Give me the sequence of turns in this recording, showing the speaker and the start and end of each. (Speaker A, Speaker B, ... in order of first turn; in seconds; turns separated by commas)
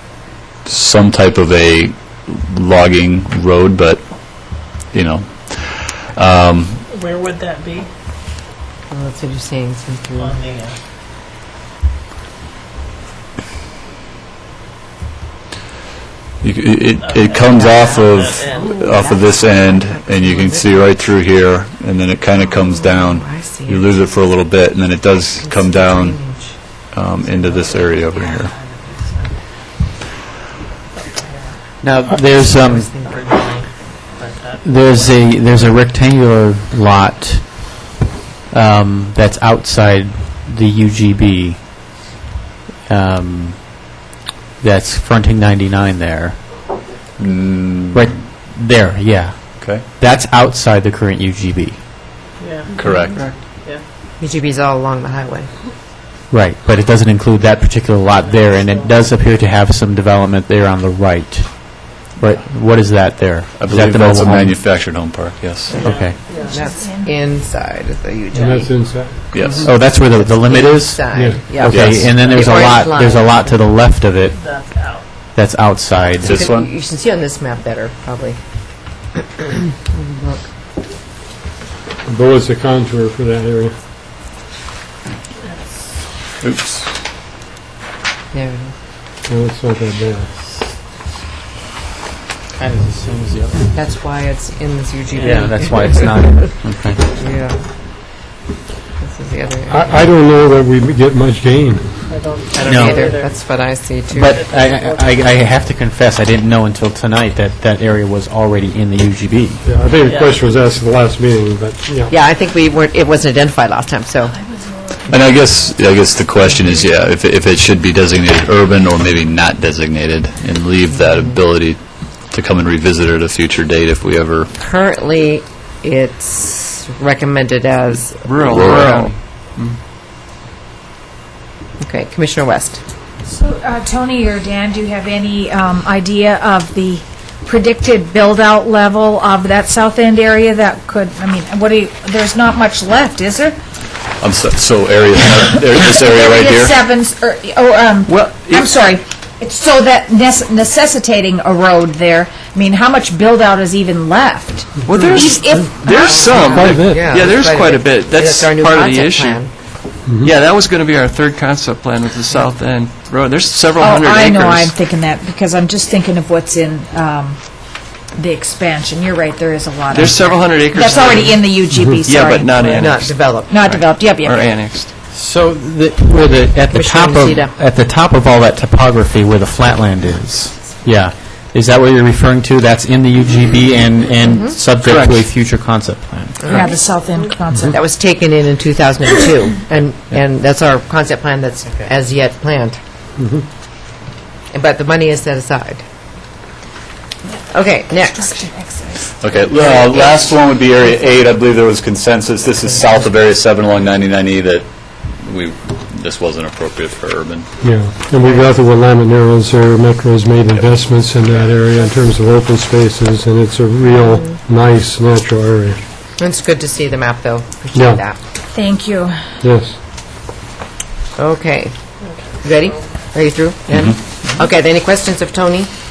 Speaker A: 0.7-6.8, Speaker B: 6.9-7.9, Speaker C: 8.9-10.4, Speaker B: 10.2-10.8, Speaker A: 16.4-28.5, Speaker B: 17.0-19.1, Speaker C: 18.3-21.0, Speaker C: 22.4-24.0, Speaker C: 25.4-26.7, Speaker B: 27.7-29.4, Speaker B: 31.0-31.5, Speaker D: 31.8-32.9, Speaker C: 32.3-33.3, Speaker B: 33.0-35.4, Speaker D: 34.6-37.8, Speaker D: 38.5-41.6, Speaker D: 42.9-43.9, Speaker D: 44.6-46.5, Speaker A: 47.2-48.1, Speaker D: 47.9-51.8, Speaker A: 49.6-49.8, Speaker B: 52.4-53.8, Speaker A: 52.8-53.2, Speaker E: 53.1-53.4, Speaker C: 54.2-55.5, Speaker D: 56.3-64.6, Speaker B: 58.3-59.0, Speaker A: 63.6-65.8, Speaker B: 65.7-66.6, Speaker D: 65.8-66.2, Speaker C: 65.9-68.9, Speaker F: 66.5-67.1, Speaker G: 68.3-69.7, Speaker A: 69.3-69.7, Speaker D: 69.6-74.4, Speaker C: 69.9-73.6, Speaker G: 71.1-71.4, Speaker A: 71.7-72.2, Speaker B: 74.3-75.0, Speaker D: 75.3-76.3, Speaker C: 76.2-78.4, Speaker A: 76.2-76.7, Speaker C: 79.2-80.4, Speaker G: 82.1-83.8, Speaker A: 86.4-86.9, Speaker C: 88.3-88.7, Speaker G: 89.2-90.3, Speaker D: 92.5-93.8, Speaker C: 93.7-96.5, Speaker D: 95.1-97.0, Speaker C: 97.1-97.6, Speaker C: 99.0-100.1, Speaker G: 99.7-102.1, Speaker B: 102.1-103.4, Speaker C: 102.5-104.4, Speaker D: 102.7-103.0, Speaker D: 104.1-109.6, Speaker B: 104.4-105.2, Speaker G: 109.6-112.2, Speaker B: 110.0-110.4, Speaker C: 112.1-114.4, Speaker F: 114.4-115.6, Speaker A: 115.1-124.5, Speaker C: 121.0-121.4, Speaker C: 124.6-129.1, Speaker E: 128.2-129.8, Speaker A: 128.5-128.9, Speaker C: 131.8-132.8, Speaker F: 133.2-143.6, Speaker A: 144.2-146.8, Speaker F: 145.6-156.3, Speaker E: 148.1-148.7, Speaker E: 154.8-164.7, Speaker G: 155.0-155.8, Speaker C: 156.0-159.5, Speaker G: 156.6-157.1, Speaker G: 160.0-160.3, Speaker F: 163.8-174.6, Speaker E: 169.9-174.9, Speaker C: 172.7-173.6, Speaker D: 175.1-186.7, Speaker C: 176.7-177.6, Speaker C: 184.3-184.6, Speaker E: 184.8-185.2, Speaker C: 186.4-186.8, Speaker F: 186.5-187.8, Speaker C: 187.6-192.8, Speaker G: 193.2-193.4, Speaker C: 194.5-195.8, Speaker C: 197.5-198.4, Speaker F: 198.0-199.1, Speaker A: 199.2-207.5, Speaker C: 199.5-200.3, Speaker G: 207.6-215.8, Speaker C: 208.2-208.6, Speaker C: 216.2-218.2, Speaker G: 217.7-218.0, Speaker F: 218.5-219.2, Speaker G: 219.4-219.8, Speaker C: 221.2-221.8, Speaker C: 222.3-225.7